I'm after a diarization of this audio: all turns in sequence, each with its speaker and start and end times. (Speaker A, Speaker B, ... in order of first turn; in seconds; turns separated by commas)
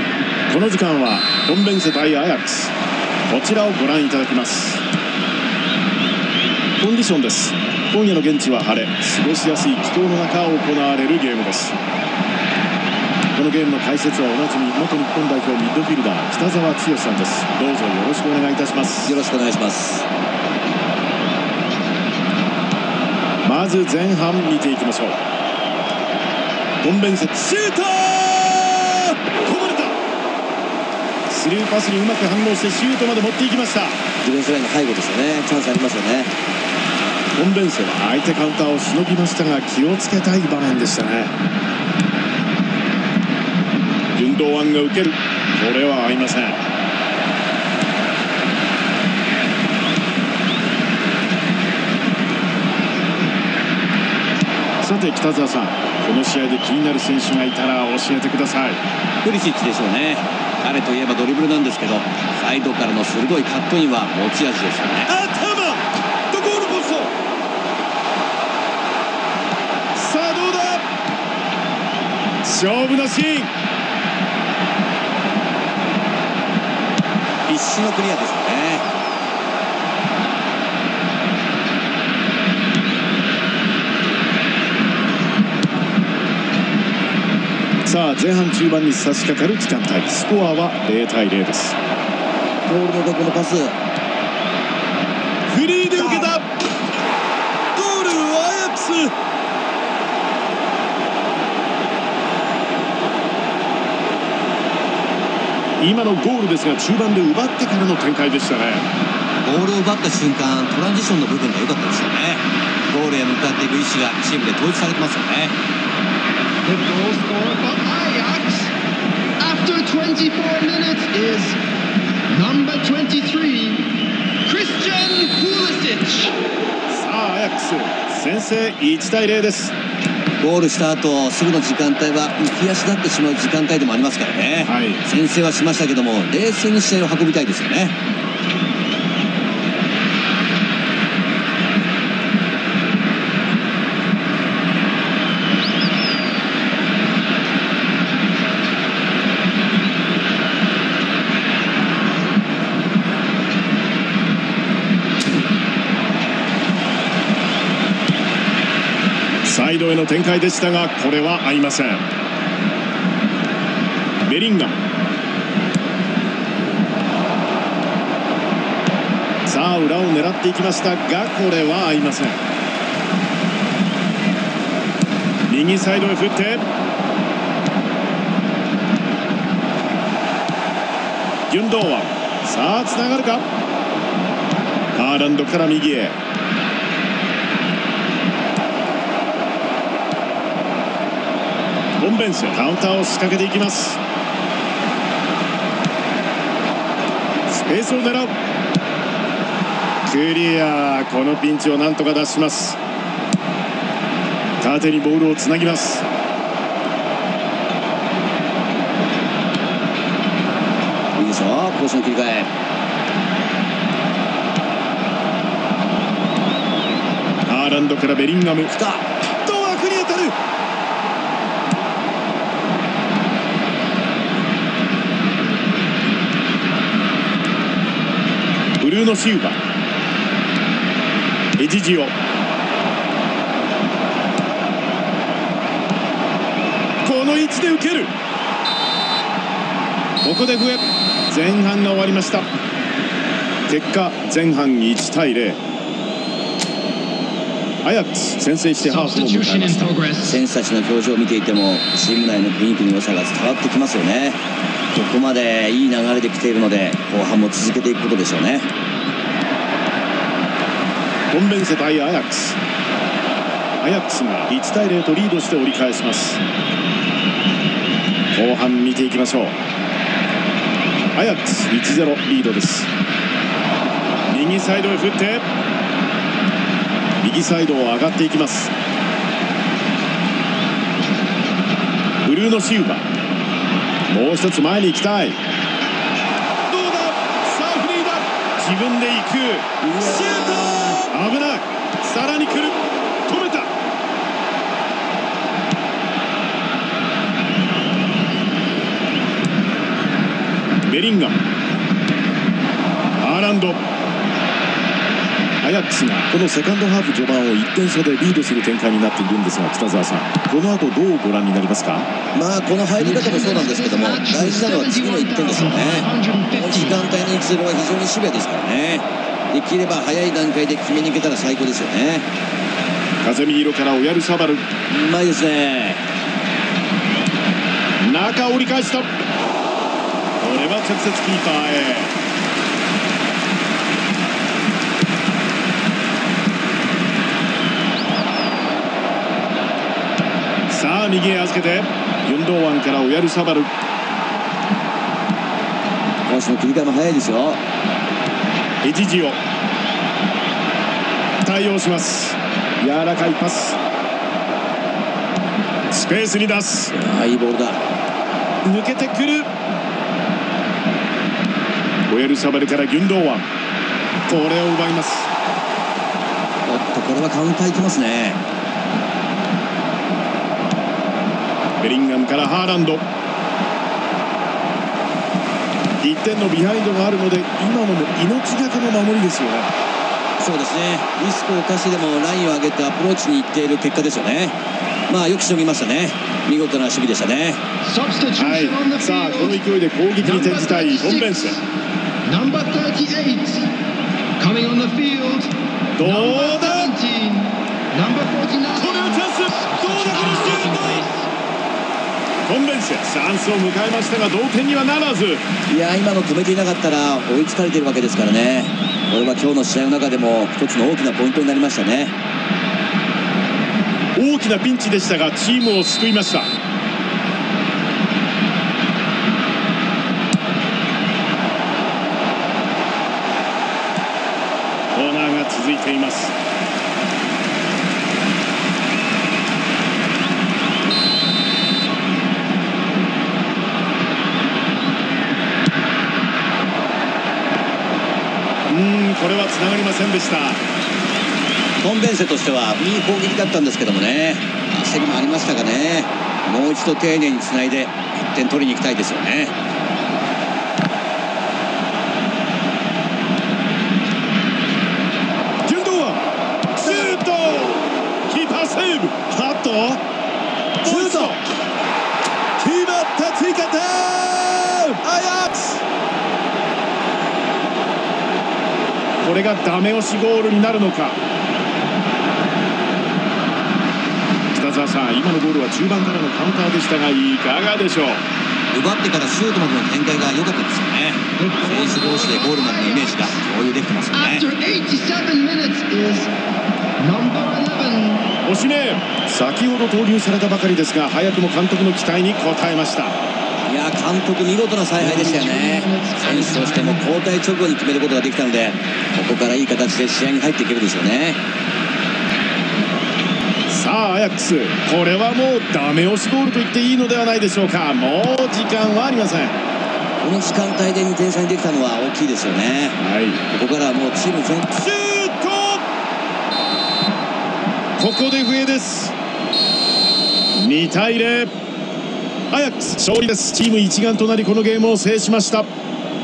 Speaker A: 0.5-2.7, Speaker A: 3.3-4.8, Speaker A: 6.8-11.7, Speaker A: 13.3-19.2, Speaker B: 19.0-20.0, Speaker A: 23.4-25.2, Speaker A: 26.8-30.0, Speaker A: 31.3-34.0, Speaker B: 34.2-36.3, Speaker A: 37.4-41.3, Speaker A: 44.1-46.6, Speaker A: 54.8-58.8, Speaker B: 59.2-65.1, Speaker A: 65.1-67.1, Speaker A: 69.9-70.8, Speaker A: 72.4-73.5, Speaker B: 77.5-78.8, Speaker A: 87.8-91.8, Speaker B: 92.7-93.8, Speaker A: 95.5-96.5, Speaker B: 97.9-99.1, Speaker A: 105.8-108.8, Speaker B: 109.4-115.5, Speaker C: 116.7-118.7, Speaker C: 119.4-121.6, Speaker C: 122.3-126.4, Speaker A: 126.9-129.7, Speaker B: 130.4-137.9, Speaker A: 134.6-135.0, Speaker A: 159.4-162.0, Speaker A: 164.2-164.8, Speaker A: 169.4-172.4, Speaker A: 175.5-176.6, Speaker A: 181.5-183.4, Speaker A: 184.9-186.2, Speaker A: 192.0-194.0, Speaker A: 197.5-198.3, Speaker A: 200.0-202.8, Speaker A: 204.6-206.0, Speaker B: 211.2-212.5, Speaker A: 217.4-218.7, Speaker B: 218.7-220.3, Speaker A: 228.8-229.6, Speaker A: 231.6-232.1, Speaker A: 237.0-238.1, Speaker A: 240.2-242.4, Speaker A: 243.7-245.6, Speaker A: 247.8-250.0, Speaker C: 248.8-250.4, Speaker B: 250.2-254.4, Speaker B: 254.9-258.7, Speaker A: 261.3-262.6, Speaker A: 263.8-266.4, Speaker A: 268.3-269.5, Speaker A: 271.1-272.9, Speaker A: 274.3-275.4, Speaker A: 277.2-278.7, Speaker A: 282.2-283.0, Speaker A: 284.1-285.4, Speaker A: 286.7-293.7, Speaker B: 289.8-291.1, Speaker A: 300.9-301.4, Speaker A: 303.2-303.8, Speaker A: 305.6-312.1, Speaker B: 312.3-322.2, Speaker C: 313.0-317.1, Speaker A: 323.2-324.6, Speaker B: 324.9-326.0, Speaker A: 328.0-329.1, Speaker A: 330.4-332.1, Speaker A: 340.7-343.7, Speaker B: 346.3-347.6, Speaker A: 348.8-349.4, Speaker A: 351.4-353.8, Speaker A: 355.9-356.9, Speaker B: 356.9-357.8, Speaker A: 358.6-359.5, Speaker A: 362.1-363.4, Speaker A: 364.3-365.3, Speaker B: 366.6-368.4, Speaker A: 371.8-373.0, Speaker A: 376.0-379.7, Speaker B: 380.4-384.5, Speaker B: 385.1-387.6, Speaker C: 387.8-389.6, Speaker A: 388.4-391.6, Speaker C: 390.2-391.6, Speaker C: 392.2-393.7, Speaker C: 394.4-401.3, Speaker A: 396.0-396.9, Speaker A: 398.7-401.1, Speaker A: 402.4-405.4, Speaker B: 405.7-412.1, Speaker A: 414.1-416.5, Speaker A: 424.9-426.3, Speaker A: 438.7-440.6, Speaker B: 441.8-449.5, Speaker A: 455.6-460.0, Speaker B: 456.8-457.2, Speaker A: 460.8-461.4, Speaker B: 460.8-461.4, Speaker A: 462.6-465.8, Speaker A: 469.2-471.2, Speaker A: 474.5-478.2, Speaker B: 478.7-484.4, Speaker C: 481.4-483.4, Speaker C: 484.1-486.3, Speaker C: 487.0-488.3, Speaker A: 488.4-493.1, Speaker B: 493.7-501.4, Speaker C: 495.0-497.1, Speaker A: 503.7-509.6, Speaker B: 510.2-513.0, Speaker A: 513.0-513.4, Speaker B: 513.5-514.8, Speaker A: 514.7-515.8, Speaker A: 518.0-519.1, Speaker A: 520.5-521.5, Speaker A: 522.5-525.7